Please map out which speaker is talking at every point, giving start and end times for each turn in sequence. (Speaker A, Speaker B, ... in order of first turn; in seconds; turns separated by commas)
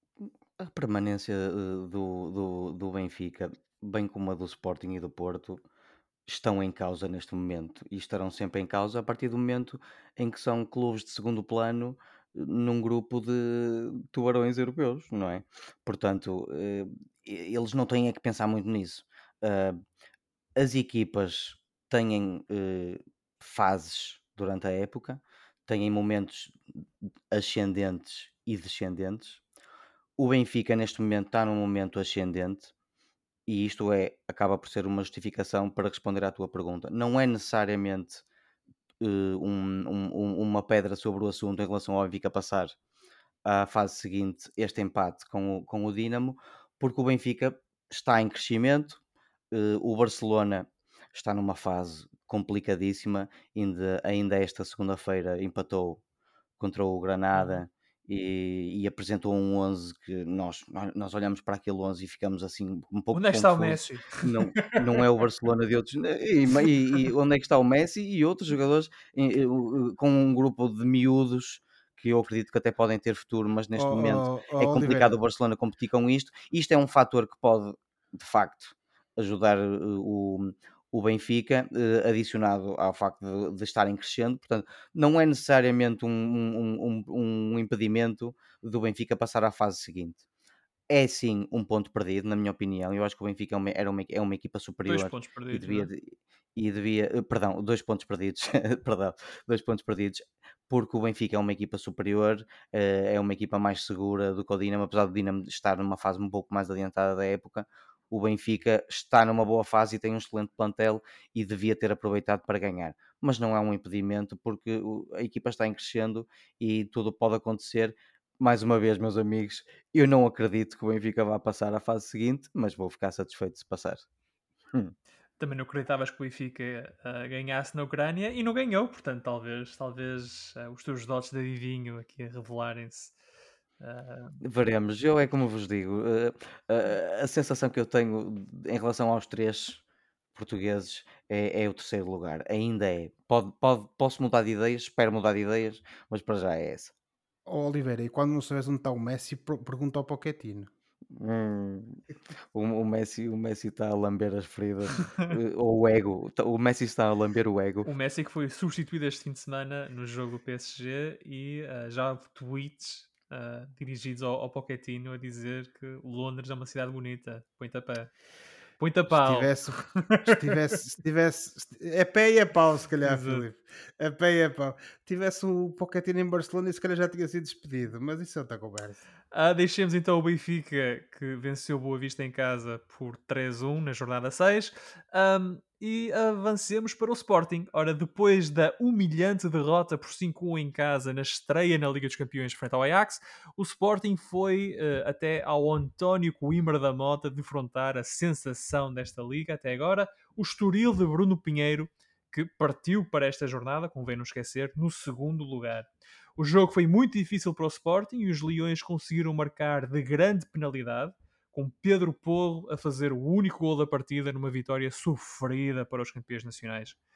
Speaker A: 0.2-5.6, Speaker A: 6.3-19.8, Speaker A: 20.6-26.6, Speaker A: 27.3-29.4, Speaker A: 30.2-32.7, Speaker A: 33.5-38.2, Speaker A: 39.0-42.7, Speaker A: 43.4-49.0, Speaker A: 49.5-56.0, Speaker A: 56.6-90.2, Speaker B: 57.3-57.6, Speaker B: 63.1-65.0, Speaker C: 73.8-75.1, Speaker A: 90.9-124.0, Speaker B: 94.9-95.9, Speaker B: 125.4-133.1, Speaker B: 133.8-134.4, Speaker A: 134.4-139.8, Speaker A: 140.3-146.9, Speaker C: 147.4-150.7, Speaker A: 151.1-152.0, Speaker A: 152.5-157.9, Speaker B: 157.8-168.1, Speaker B: 168.8-170.5, Speaker C: 169.1-179.0, Speaker B: 173.0-173.4, Speaker B: 179.3-217.0